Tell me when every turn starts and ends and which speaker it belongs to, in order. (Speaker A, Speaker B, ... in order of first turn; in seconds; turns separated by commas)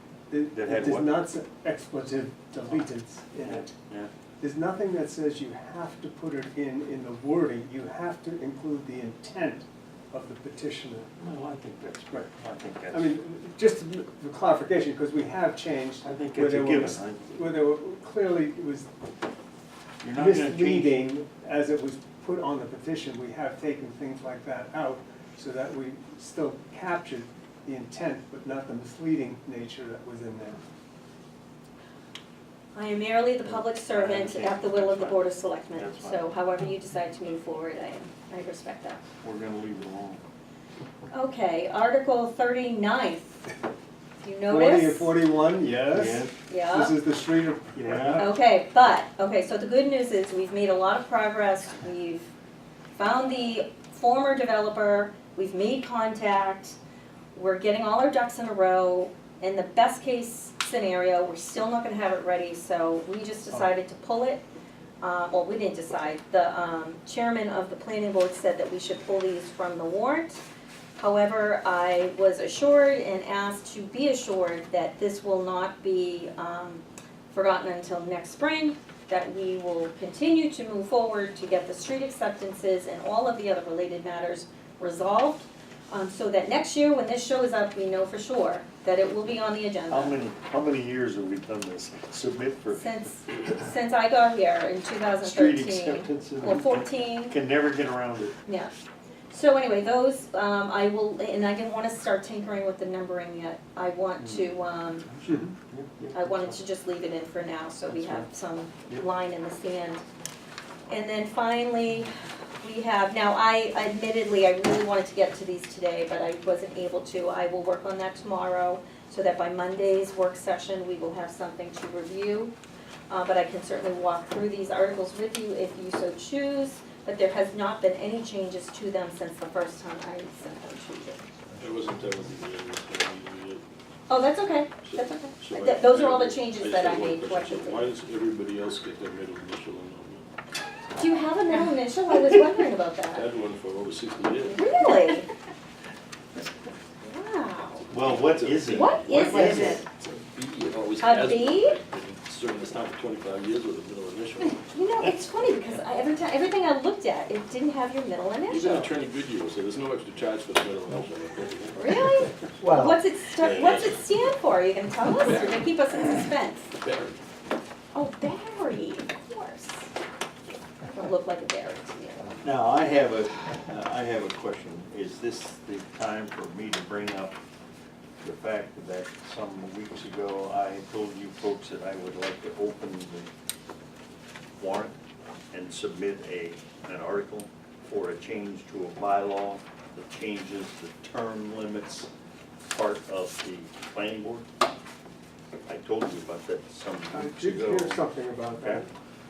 Speaker A: 0.3-3.7, Speaker B: 0.5-1.1, Speaker B: 3.4-4.1, Speaker A: 4.4-11.1, Speaker B: 11.2-13.1, Speaker A: 12.9-18.9, Speaker B: 16.0-17.5, Speaker B: 20.0-21.0, Speaker A: 20.1-30.6, Speaker C: 32.7-39.0, Speaker B: 33.4-36.3, Speaker B: 39.2-40.2, Speaker C: 41.1-43.4, Speaker C: 44.2-45.2, Speaker A: 44.5-48.2, Speaker B: 45.9-46.3, Speaker C: 46.5-47.0, Speaker B: 47.8-48.3, Speaker C: 48.2-52.3, Speaker C: 52.9-56.8, Speaker C: 57.3-64.4, Speaker C: 65.0-70.4, Speaker C: 71.0-90.2, Speaker B: 89.9-93.4, Speaker C: 92.7-97.4, Speaker B: 95.2-98.3, Speaker C: 98.5-98.7, Speaker C: 99.3-105.1, Speaker B: 104.2-104.5, Speaker B: 105.1-106.6, Speaker C: 106.1-110.0, Speaker B: 107.9-108.3, Speaker C: 110.9-122.5, Speaker C: 123.1-131.2, Speaker D: 131.6-133.6, Speaker C: 134.1-137.9, Speaker D: 134.8-140.2, Speaker C: 140.9-143.2, Speaker D: 143.1-144.7, Speaker C: 144.5-145.3, Speaker C: 147.0-147.9, Speaker B: 147.9-149.8, Speaker D: 147.9-154.6, Speaker C: 148.7-149.8, Speaker C: 151.0-151.8, Speaker C: 154.6-158.9, Speaker D: 158.5-162.3, Speaker C: 161.8-166.7, Speaker B: 162.6-163.0, Speaker D: 163.4-164.0, Speaker D: 165.1-165.8, Speaker D: 166.8-167.2, Speaker C: 167.9-169.9, Speaker C: 170.8-172.4, Speaker B: 172.4-177.4, Speaker B: 178.2-183.3, Speaker B: 184.6-184.9, Speaker B: 185.5-192.1, Speaker B: 192.7-194.5, Speaker B: 195.7-198.0, Speaker A: 197.1-198.9, Speaker B: 198.6-198.9